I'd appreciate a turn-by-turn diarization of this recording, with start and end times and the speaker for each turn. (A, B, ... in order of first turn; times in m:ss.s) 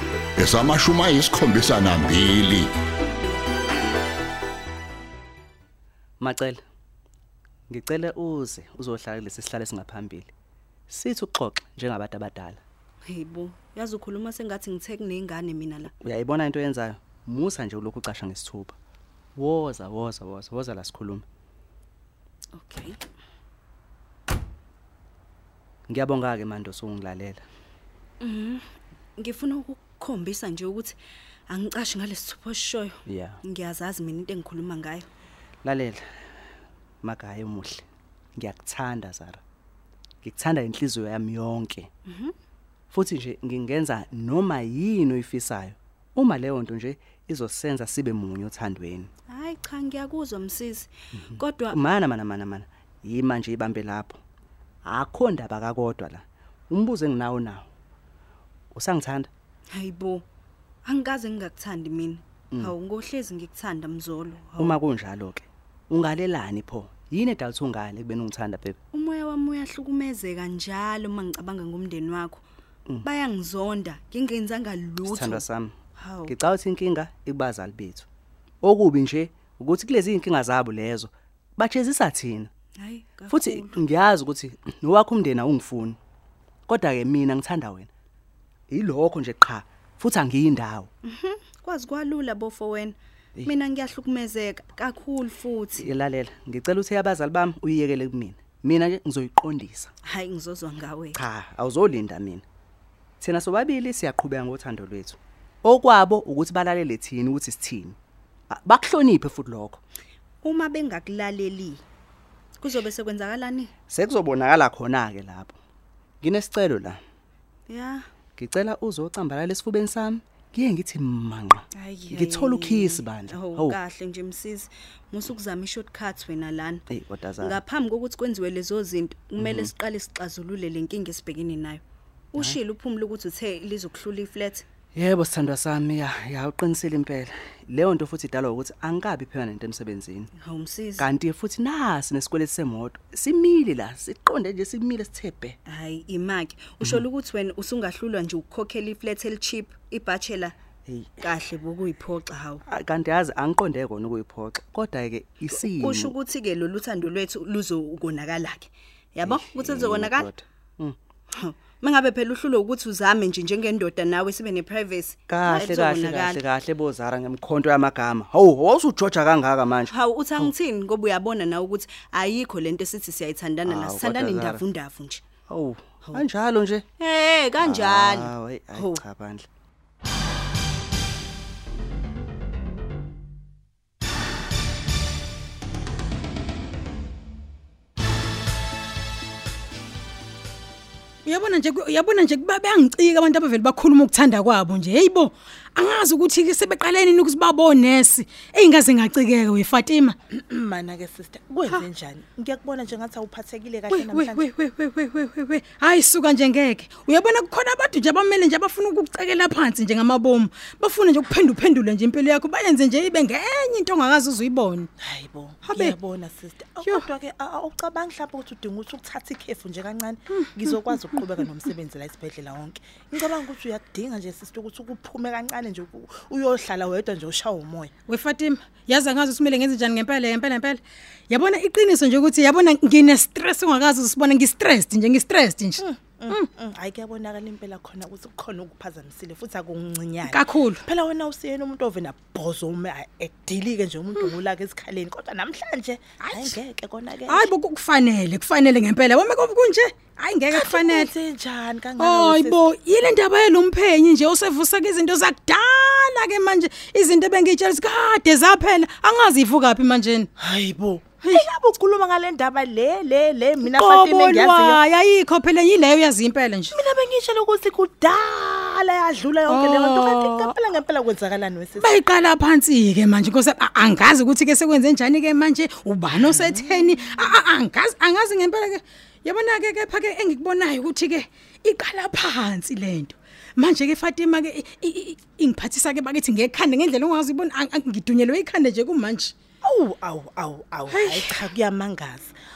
0:00.4-0:02.7 A
0:06.2-0:06.6 B
0:07.7-0:10.3 B
0:10.9-0:12.6 B
0:13.0-0:15.9 C
0:16.0-0:18.8 B
0:19.3-0:21.2 B
0:22.6-0:23.0 C
0:25.9-0:27.4 B
0:28.2-0:28.6 C
0:29.2-0:31.0 C
0:31.5-0:35.1 C
0:33.1-0:33.4 B
0:35.6-0:36.0 B
0:37.0-0:37.8 B
0:38.4-0:39.4 B
0:40.2-0:41.9 B
0:42.0-0:42.3 C
0:42.9-0:49.1 B
0:49.3-0:51.8 C
0:51.2-0:54.2 B
0:54.8-0:57.7 B
0:58.7-0:59.3 B
0:59.7-1:00.3 C
1:00.8-1:04.8 C
1:04.6-1:08.8 B
1:08.9-1:12.4 C
1:13.0-1:15.4 C
1:15.1-1:15.8 B
1:16.0-1:16.3 C
1:16.3-1:18.1 B
1:18.6-1:22.5 B
1:22.8-1:23.8 C
1:23.3-1:26.0 B
1:26.7-1:27.9 B
1:28.7-1:30.9 B
1:31.0-1:35.9 C
1:35.8-1:39.9 B
1:40.0-1:41.2 C
1:41.1-1:42.4 B
1:43.2-1:48.0 B
1:48.5-1:49.8 B
1:50.4-1:51.8 C
1:52.6-1:53.7 C
1:53.9-1:55.6 B
1:56.2-1:57.0 B
1:57.7-1:58.1 C
1:58.4-2:03.8 B
2:01.8-2:06.8 C
2:06.9-2:07.6 B
2:07.4-2:11.8 C
2:09.4-2:09.7 B
2:12.3-2:14.6 C
2:14.9-2:20.3 B
2:20.4-2:21.1 C
2:21.0-2:25.6 B
2:25.7-2:30.6 C
2:30.9-2:31.3 B
2:31.2-2:32.6 C
2:32.7-2:36.1 B
2:35.5-2:40.3 C
2:39.2-2:41.0 B
2:41.3-2:46.4 C
2:45.3-2:50.5 B
2:49.9-2:55.2 C
2:53.6-2:54.6 B
2:55.5-2:56.9 B
2:57.0-2:59.0 C
2:57.6-2:59.4 B
3:11.2-3:20.2 D
3:20.3-3:24.5 E
3:23.9-3:34.9 D
3:35.0-3:47.9 E
3:35.6-3:36.0 D
3:40.3-3:41.2 D
3:48.1-3:56.5 D
3:55.8-4:07.5 E
4:00.2-4:00.8 D
4:06.2-4:06.6 D
4:07.3-4:11.1 D
4:10.5-4:12.7 E
4:12.0-4:20.3 D
4:20.4-4:24.8 E
4:23.6-4:26.7 D
4:26.7-4:32.0 E
4:29.5-4:30.5 D
4:31.8-4:49.3 D
4:36.2-4:36.6 E
4:49.6-4:52.3 E
4:50.9-4:51.5 D